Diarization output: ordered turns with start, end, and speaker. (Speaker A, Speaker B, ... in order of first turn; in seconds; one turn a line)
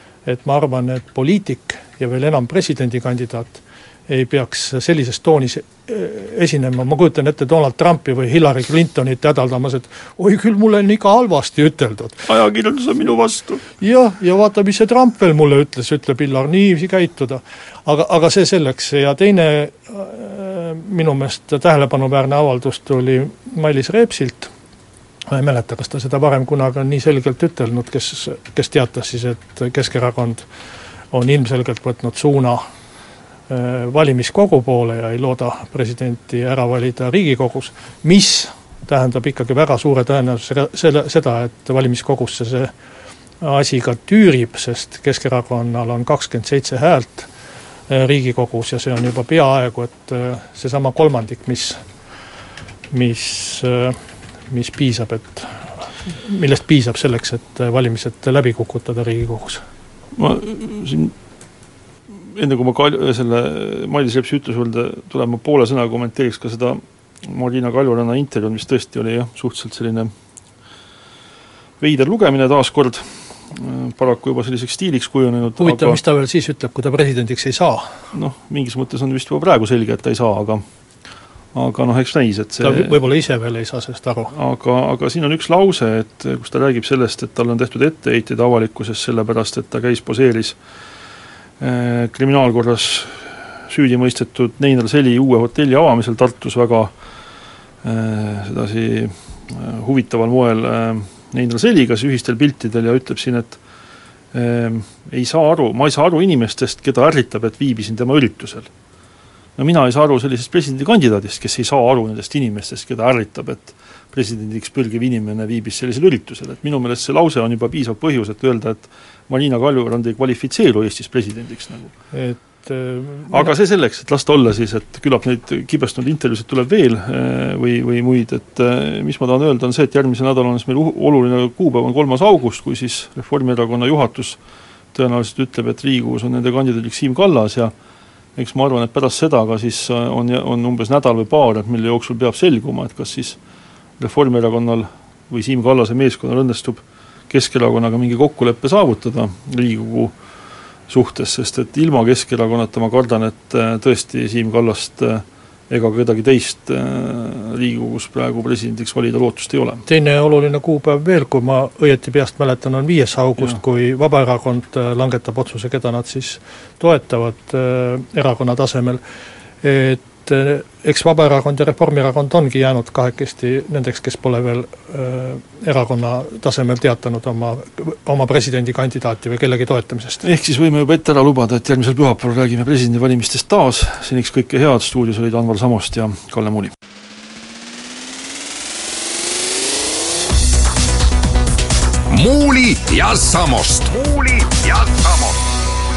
Speaker A: 0.3-12.3
Speaker B: 12.3-13.7
Speaker A: 13.8-24.5
Speaker A: 25.3-30.4
Speaker A: 31.1-32.6
Speaker A: 33.5-42.7
Speaker A: 43.4-47.3
Speaker A: 47.9-51.8
Speaker A: 52.9-54.0
Speaker A: 54.5-59.6
Speaker B: 60.1-61.1
Speaker B: 62.1-70.1
Speaker B: 71.8-76.0
Speaker A: 75.6-78.0
Speaker B: 78.1-80.6
Speaker B: 81.5-83.0
Speaker A: 82.6-84.3
Speaker B: 84.3-90.6
Speaker B: 91.6-96.9
Speaker B: 97.8-103.6
Speaker B: 104.3-108.7
Speaker B: 109.6-121.9
Speaker A: 122.1-123.5
Speaker B: 123.3-134.4
Speaker B: 134.9-137.7
Speaker B: 138.4-143.4
Speaker B: 144.0-150.1
Speaker B: 150.9-159.8
Speaker A: 159.9-169.0
Speaker A: 169.6-180.2
Speaker B: 180.2-186.7
Speaker C: 192.1-195.6